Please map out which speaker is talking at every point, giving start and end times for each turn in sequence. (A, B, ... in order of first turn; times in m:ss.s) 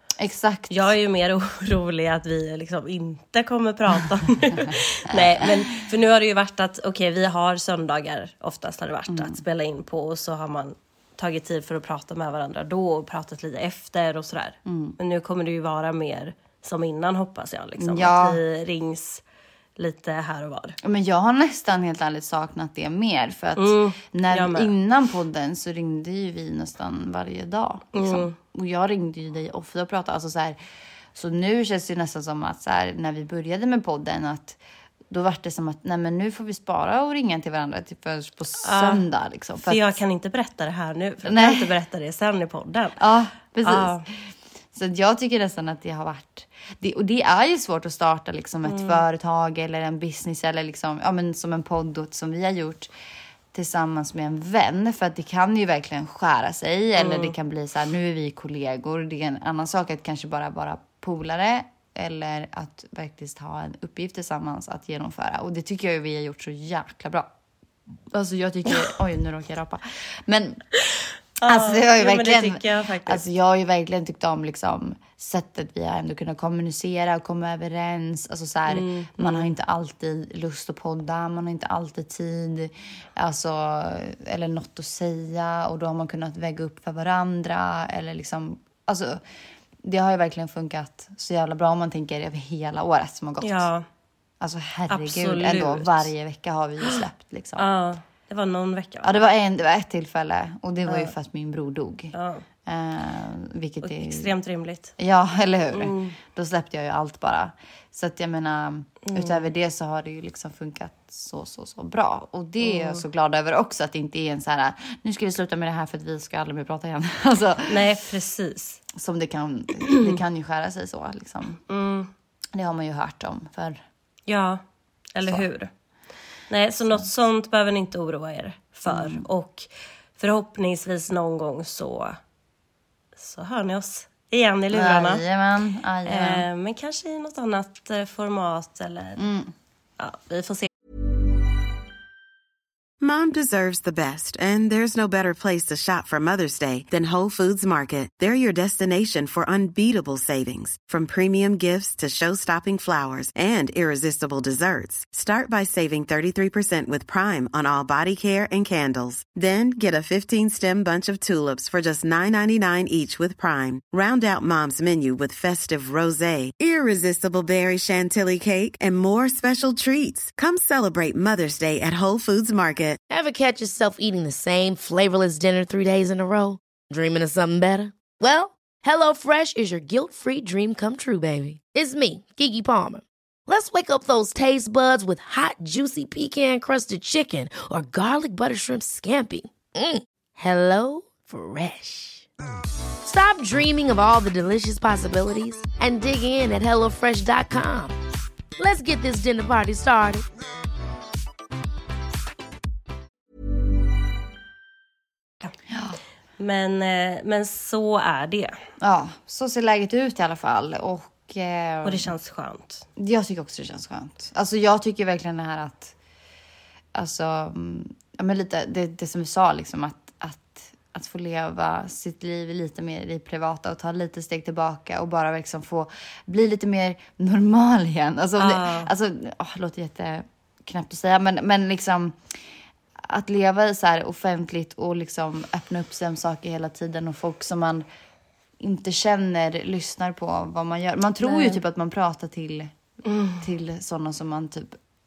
0:00.2-0:00.8 A
0:00.7-0:19.2 B
0:04.5-0:05.6 A
0:09.1-0:09.4 A
0:14.6-0:15.0 A
0:17.8-0:18.4 A
0:19.8-0:20.8 B
0:20.8-0:30.6 A
0:23.6-0:24.7 B
0:27.9-0:28.4 B
0:31.1-0:34.6 A
0:35.1-0:40.0 A
0:38.6-0:39.0 B
0:39.6-0:43.0 B
0:41.2-0:41.7 A
0:43.0-0:44.2 A
0:43.6-0:44.0 B
0:44.7-0:52.9 A
0:48.6-0:49.0 B
0:53.5-1:07.3 A
0:57.0-0:57.3 B
1:08.1-1:10.6 A
1:11.4-1:13.2 B
1:11.4-1:29.2 A
1:18.7-1:19.5 B
1:29.8-1:33.7 A
1:33.4-1:33.8 B
1:34.4-1:37.7 A
1:34.9-1:36.1 B
1:37.6-1:39.1 B
1:39.0-1:42.1 A
1:40.8-1:41.1 B
1:42.1-1:42.4 B
1:42.6-1:44.3 A
1:43.8-1:44.9 B
1:45.0-1:57.9 A
1:45.7-1:46.2 B
1:49.0-1:49.5 B
1:52.6-1:53.0 B
1:57.7-1:58.8 B
1:58.9-2:01.6 A
2:01.7-2:02.1 B
2:02.5-2:03.8 A
2:04.3-2:04.6 B
2:05.1-2:05.7 B
2:06.5-2:12.2 B
2:08.9-2:09.2 A
2:13.2-2:15.2 B
2:14.7-2:16.4 A
2:16.0-2:19.2 B
2:19.2-2:19.5 A
2:20.0-2:20.7 B
2:23.0-2:53.0 C
2:53.1-3:12.3 D
3:13.0-3:17.9 D
3:18.6-3:20.3 D
3:25.7-3:26.0 A
3:26.4-3:28.5 B
3:28.8-3:32.1 A
3:31.8-3:32.8 B
3:33.0-3:35.9 A
3:36.9-3:52.4 A
3:48.4-3:48.9 B
3:53.0-3:57.8 A
3:58.6-4:02.8 A
4:01.2-4:01.6 B
4:03.0-4:03.4 B
4:03.4-4:04.8 A